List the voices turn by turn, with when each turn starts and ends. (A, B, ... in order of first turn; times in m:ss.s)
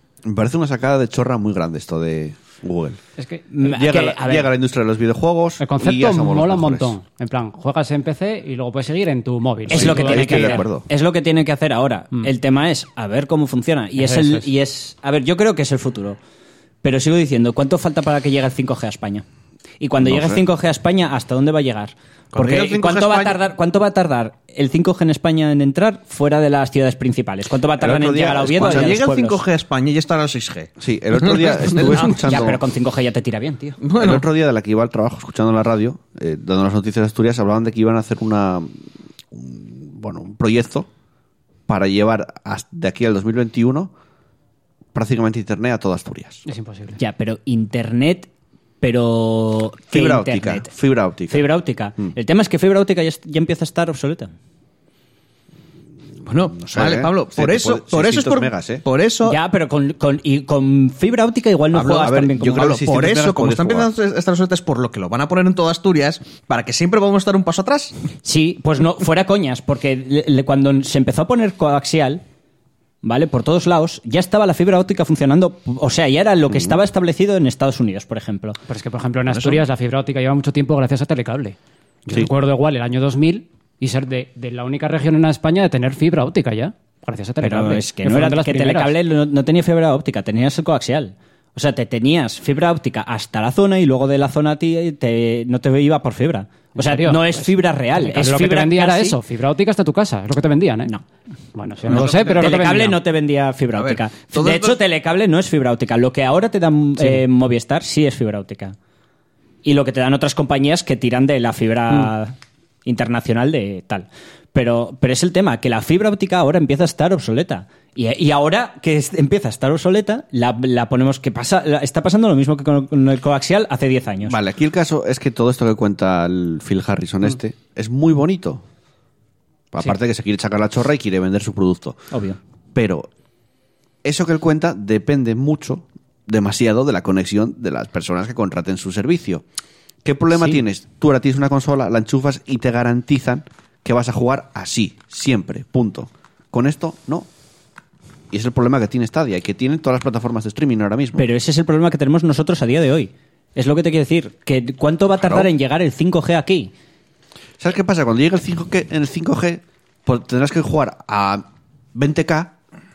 0:00.2-0:03.0 A
0:03.2-0:03.4 B
0:03.5-0:04.5 C
0:03.6-0:07.0 A
0:05.6-0:10.6 B
0:09.7-0:10.8 A
0:09.7-0:16.2 C
0:14.0-0:14.4 B
0:16.8-0:19.2 C
0:19.8-0:29.4 C
0:20.0-0:20.4 A
0:22.3-0:23.4 D
0:27.8-0:29.0 A
0:28.6-0:32.2 D
0:30.8-0:32.6 A
0:32.0-0:33.8 C
0:33.8-0:34.2 D
0:34.0-0:40.9 A
0:41.7-0:43.9 A
0:44.9-0:46.4 A
0:46.5-0:47.0 B
0:47.0-0:48.3 C
0:48.8-0:50.7 C
0:49.9-0:51.5 A
0:51.3-0:54.3 C
0:56.3-0:59.4 D
0:56.6-0:58.8 A
0:59.2-1:02.7 C
1:01.8-1:07.9 D
1:01.8-1:03.9 A
1:08.2-1:12.2 C
1:13.0-1:18.6 C
1:16.5-1:16.8 A
1:18.7-1:21.6 B
1:19.3-1:19.6 D
1:22.1-1:29.0 B
1:27.4-1:39.2 C
1:36.8-1:40.9 B
1:41.6-1:43.0 B
1:41.8-1:42.8 D
1:41.9-1:48.8 C
1:43.8-1:44.8 D
1:49.6-2:04.4 C
2:04.2-2:08.6 A
2:09.7-2:12.0 A
2:12.1-2:12.4 C
2:12.7-2:13.1 A
2:14.0-2:19.4 A
2:20.0-2:27.3 A
2:28.3-2:31.2 A
2:31.2-2:36.7 C
2:35.2-2:35.5 A
2:37.6-2:42.6 A